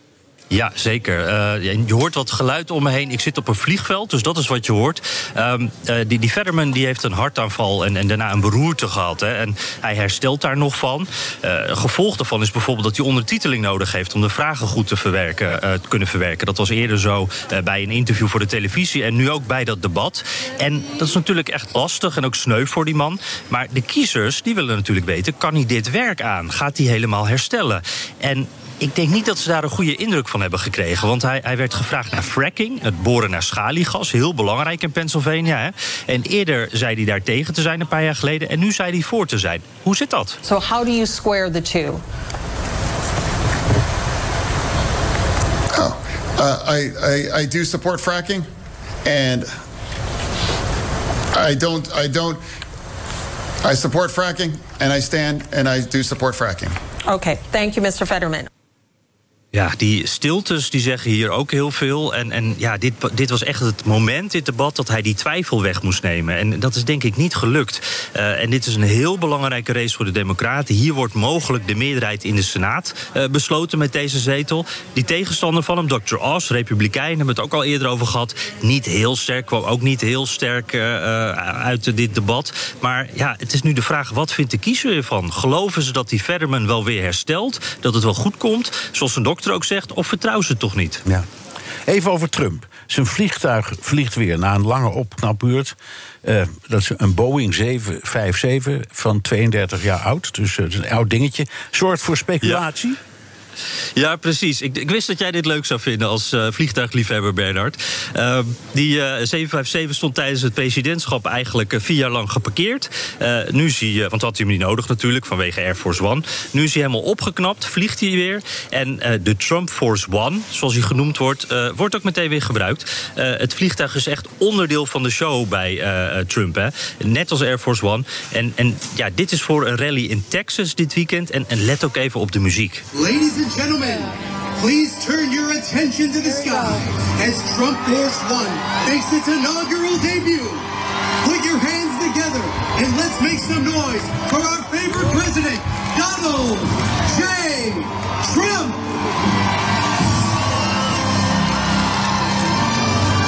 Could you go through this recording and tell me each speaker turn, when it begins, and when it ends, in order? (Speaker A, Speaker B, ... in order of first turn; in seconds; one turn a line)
Speaker A: 0.5-40.4
Speaker B: 40.4-42.0
Speaker C: 45.7-48.5
Speaker C: 49.0-49.5
Speaker C: 51.3-52.4
Speaker C: 53.6-56.8
Speaker B: 57.1-58.5
Speaker A: 59.5-91.0
Speaker D: 91.9-103.0
Speaker A: 104.0-132.8
Speaker E: 132.9-140.7
Speaker E: 141.2-148.8